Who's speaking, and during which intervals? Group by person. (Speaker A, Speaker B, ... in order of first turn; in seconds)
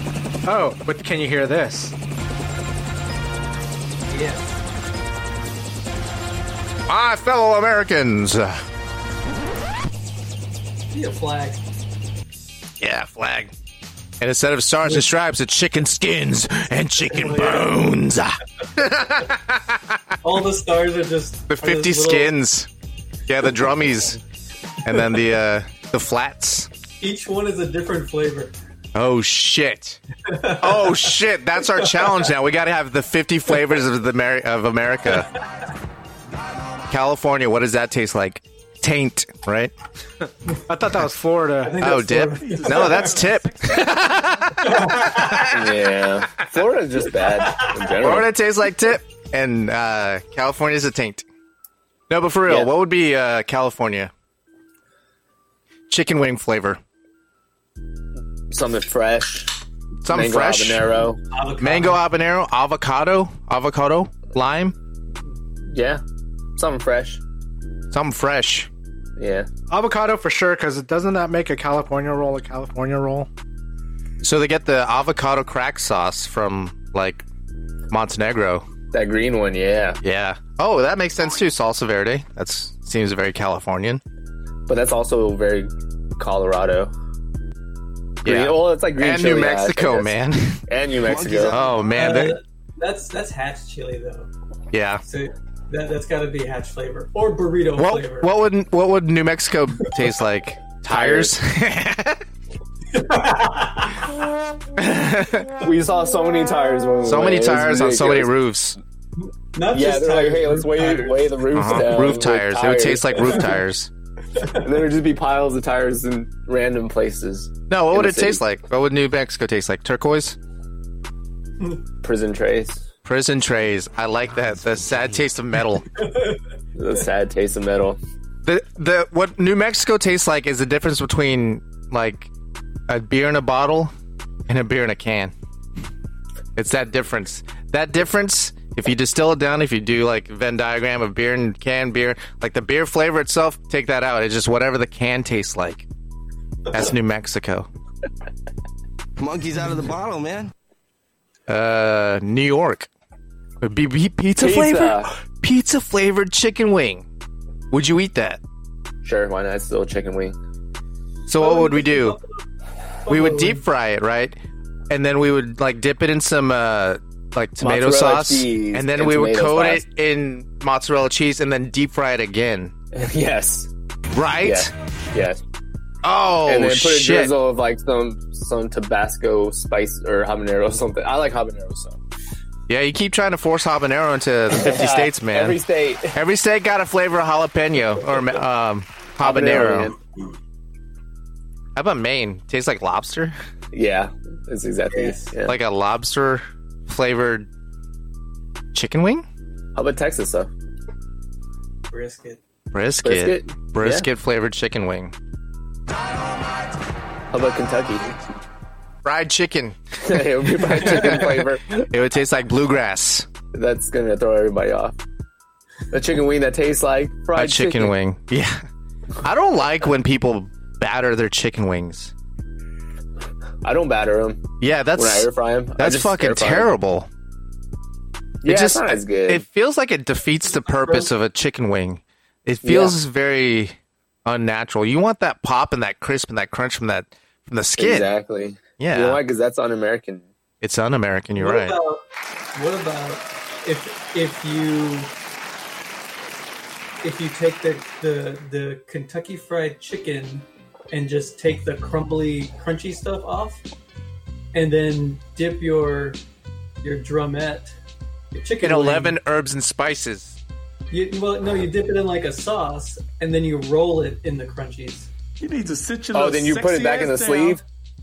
Speaker A: 0.4-1.9, 40.7-41.9, 69.7-73.3
Speaker B: 4.1-4.6, 10.9-11.6, 17.1-17.7, 20.2-22.3, 27.0-28.5, 30.2-31.1, 31.8-32.1, 41.6-43.2, 44.6-45.5, 47.2-47.8, 61.3-62.0, 91.9-94.3, 95.0-98.3, 102.9-104.1, 109.5-111.4, 126.0-126.4, 161.4-162.4, 163.0-163.6, 194.9-195.3, 201.9-202.4, 210.8-211.2, 230.4-231.1, 241.4-242.0, 242.5-245.1, 247.0-253.6, 254.5-256.2, 256.8-257.7, 258.3-259.2, 260.9-265.1
Speaker C: 6.9-8.6, 12.8-13.5, 14.2-20.0, 21.5-22.7, 23.3-24.2, 24.8-26.7, 28.9-30.0, 30.6-35.3, 36.9-39.7, 41.8-45.5, 48.0-51.2, 52.1-54.1, 55.9-56.8, 60.0-60.9, 61.6-64.7, 67.9-68.7, 74.2-77.2, 77.9-78.6, 80.0-84.0, 88.2-90.6, 91.5-92.4, 94.7-95.0, 97.8-102.2, 104.8-105.6, 107.0-108.8, 111.5-113.9, 117.7-120.4, 123.0-125.8, 128.4-132.3, 132.9-133.9, 134.5-135.3, 136.6-145.8, 146.7-147.7, 151.5-152.9, 153.6-157.1, 157.7-158.4, 161.3-162.2, 163.1-164.3, 164.9-172.7, 174.1-174.7, 176.0-177.3, 182.7-185.6, 186.1-189.9, 191.8-193.3, 195.4-197.5, 198.7-199.2, 202.7-205.1, 209.0-213.3, 217.3-218.6, 219.2-222.1, 224.6-227.1, 228.4-238.1, 238.8-239.2, 240.6-241.8, 258.6-260.4
Speaker D: 42.4-43.8, 265.4-267.6
Speaker E: 45.4-48.3, 58.5-59.5, 60.1-61.2, 65.7-66.0, 66.6-67.2, 69.2-69.5, 78.9-80.0, 84.7-86.9, 88.2-90.1, 90.7-91.5, 100.9-101.3, 105.6-108.3, 109.7-113.5, 114.5-118.4, 122.0-122.8, 126.8-128.0, 154.4-155.1, 159.0-160.3, 167.6-169.8, 172.9-173.7, 174.4-175.4, 176.4-182.0, 184.5-186.2, 189.2-190.0, 193.7-195.6, 199.7-200.5, 203.0-204.1, 207.3-208.2, 210.0-211.9, 213.5-215.0, 215.9-217.9, 223.6-226.7, 228.4-229.4, 232.6-233.0, 237.8-240.2, 266.1-267.6
Speaker F: 91.0-91.8, 124.5-125.2, 149.2-150.5